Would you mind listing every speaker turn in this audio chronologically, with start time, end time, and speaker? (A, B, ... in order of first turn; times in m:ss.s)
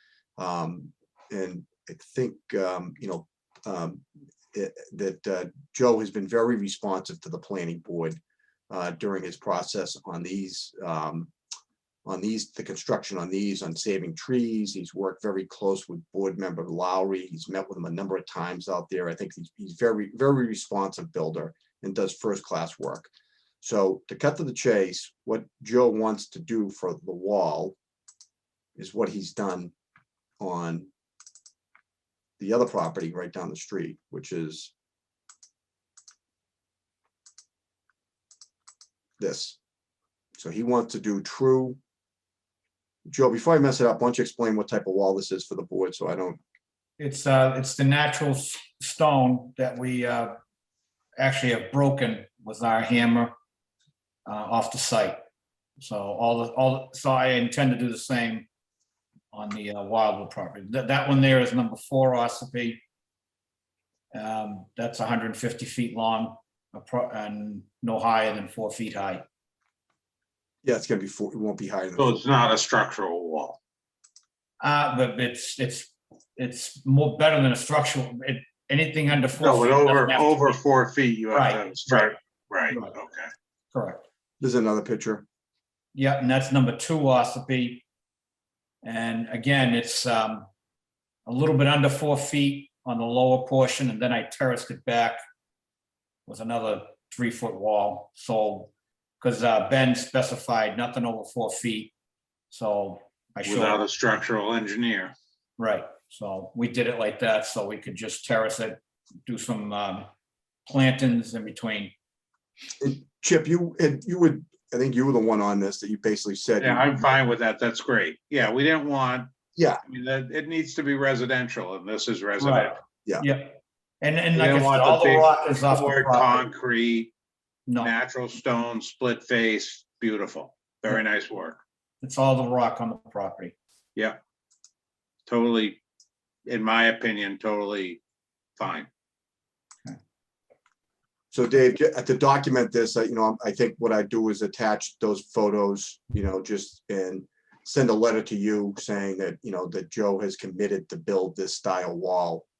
0:00.4-0:11.3 A
0:12.0-0:23.1 A
0:23.6-0:27.8 A
0:28.8-0:29.7 A
0:30.4-0:30.9 A
0:32.4-0:34.7 A
0:39.2-0:39.6 A
0:40.4-0:41.8 A
0:43.0-0:46.4 A
0:47.0-0:50.3 B
0:51.2-0:53.3 B
0:54.2-0:55.2 B
0:55.8-0:58.5 B
0:59.3-1:02.8 B
1:04.1-1:09.2 B
1:10.6-1:12.2 A
1:12.0-1:13.6 C
1:14.6-1:20.6 B
1:19.4-1:23.3 C
1:21.3-1:22.1 B
1:23.7-1:24.0 B
1:24.4-1:25.2 A
1:25.9-1:27.8 B
1:28.8-1:30.5 B
1:31.2-1:35.2 B
1:36.2-1:41.9 B
1:42.5-1:43.8 B
1:43.4-1:45.1 C
1:45.6-1:50.1 B
1:50.6-1:51.9 B
1:52.8-1:56.9 A
1:56.6-2:02.8 C
1:59.6-1:59.8 A
2:02.4-2:06.4 B
2:04.3-2:07.1 C
2:07.8-2:11.6 C
2:12.0-2:13.5 B
2:15.3-2:15.8 C
2:16.4-2:18.0 C
2:18.6-2:18.9 C
2:21.3-2:32.4 A